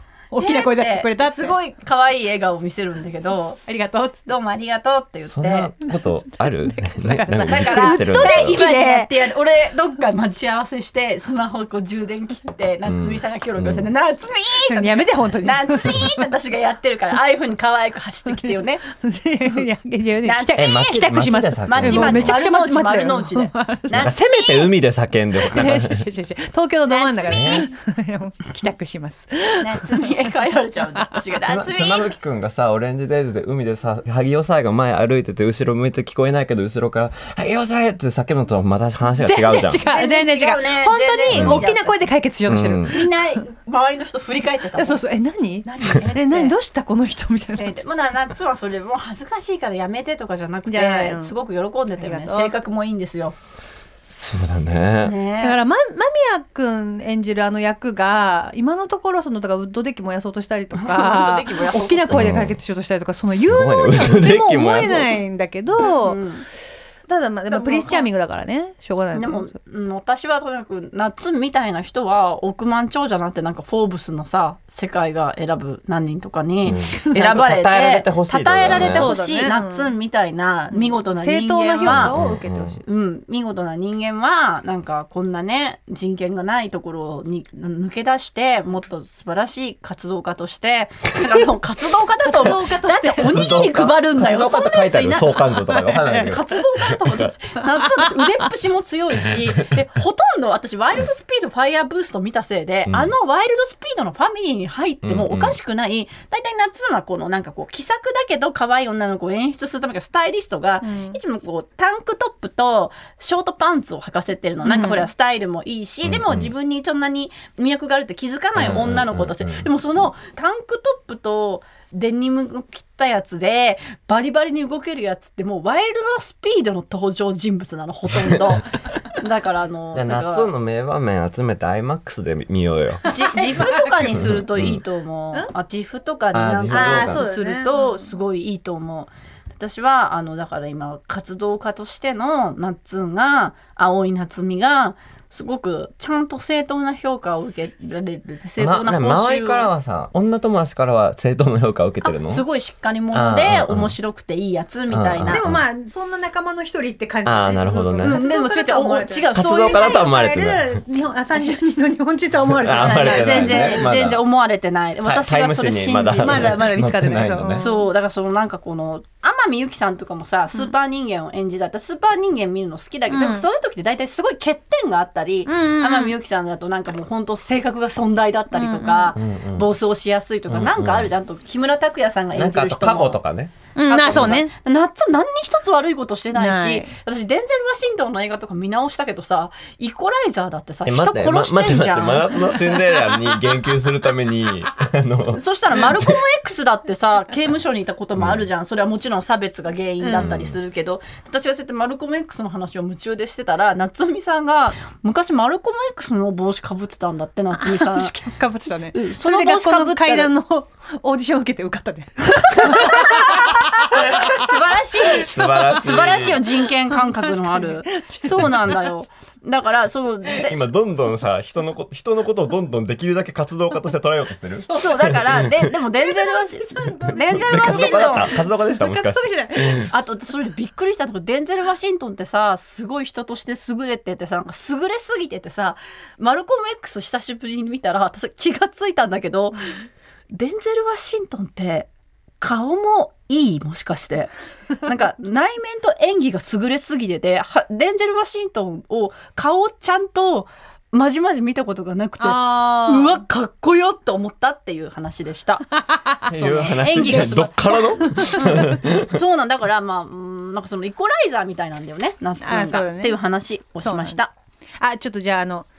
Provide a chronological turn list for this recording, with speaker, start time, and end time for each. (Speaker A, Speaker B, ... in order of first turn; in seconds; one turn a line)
Speaker A: 0.3-1.6
Speaker B: 0.4-3.6
Speaker A: 3.6-4.2
Speaker B: 4.3-5.7
Speaker C: 5.3-8.6
Speaker A: 6.6-9.2
Speaker B: 7.5-18.8
Speaker C: 12.9-13.9
Speaker A: 14.7-16.3
Speaker A: 18.3-24.1
Speaker B: 20.2-24.7
Speaker C: 20.6-22.4
Speaker C: 23.9-26.1
Speaker A: 25.5-30.1
Speaker B: 26.9-27.7
Speaker C: 27.2-27.7
Speaker B: 29.6-32.1
Speaker C: 31.4-39.8
Speaker A: 39.2-43.3
Speaker B: 39.8-42.1
Speaker C: 41.3-41.6
Speaker C: 42.5-42.9
Speaker B: 42.9-45.0
Speaker A: 44.8-47.8
Speaker B: 45.6-46.5
Speaker B: 47.6-53.4
Speaker A: 50.7-51.3
Speaker A: 52.0-52.5
Speaker C: 54.1-55.1
Speaker B: 55.0-55.6
Speaker A: 55.4-66.2
Speaker B: 60.8-62.3
Speaker C: 62.1-62.6
Speaker C: 63.3-65.2
Speaker B: 66.0-66.5
Speaker A: 67.1-69.5
Speaker B: 67.5-68.1
Speaker B: 69.1-82.2
Speaker C: 76.7-79.1
Speaker A: 76.9-77.3
Speaker A: 78.7-79.9
Speaker A: 80.7-82.8
Speaker C: 81.8-82.8
Speaker B: 82.8-95.5
Speaker A: 92.2-93.5
Speaker C: 93.2-97.3
Speaker A: 95.7-96.4
Speaker B: 96.3-130.5
Speaker A: 97.7-98.4
Speaker C: 99.2-99.7
Speaker C: 102.9-103.1
Speaker C: 105.0-105.6
Speaker A: 110.8-111.2
Speaker A: 114.6-115.1
Speaker C: 116.0-116.5
Speaker C: 118.6-119.7
Speaker C: 129.9-134.8
Speaker B: 133.1-149.7
Speaker A: 133.1-133.4
Speaker C: 136.3-137.3
Speaker A: 136.7-138.1
Speaker C: 148.6-152.4
Speaker B: 152.0-155.4
Speaker C: 153.1-153.9
Speaker C: 154.9-155.6
Speaker A: 155.3-163.9
Speaker C: 157.2-158.2
Speaker B: 158.0-160.1
Speaker C: 159.3-160.8
Speaker C: 162.5-164.2
Speaker B: 162.8-166.7
Speaker C: 165.0-167.7
Speaker A: 166.2-167.9
Speaker B: 167.5-183.2
Speaker A: 173.1-173.5
Speaker A: 175.5-176.1
Speaker A: 178.5-179.1
Speaker C: 179.2-179.7
Speaker C: 180.5-181.1
Speaker C: 182.3-184.4
Speaker A: 183.8-184.5
Speaker B: 183.9-192.6
Speaker A: 186.3-186.9
Speaker C: 190.9-196.2
Speaker B: 195.3-208.2
Speaker C: 198.2-198.5
Speaker A: 200.0-200.3
Speaker C: 200.2-200.6
Speaker A: 207.6-214.6
Speaker B: 208.9-210.3
Speaker B: 212.4-220.6
Speaker C: 215.2-216.4
Speaker A: 216.9-218.9
Speaker C: 220.4-225.7
Speaker B: 224.7-228.3
Speaker A: 225.9-229.9
Speaker C: 227.1-229.9
Speaker B: 229.9-239.7
Speaker B: 240.3-241.9
Speaker B: 242.4-255.7
Speaker A: 252.2-253.2
Speaker A: 255.9-256.2
Speaker C: 256.3-259.2
Speaker B: 256.3-264.3
Speaker A: 257.0-258.5
Speaker A: 262.4-263.2
Speaker A: 263.8-264.2
Speaker A: 264.8-265.7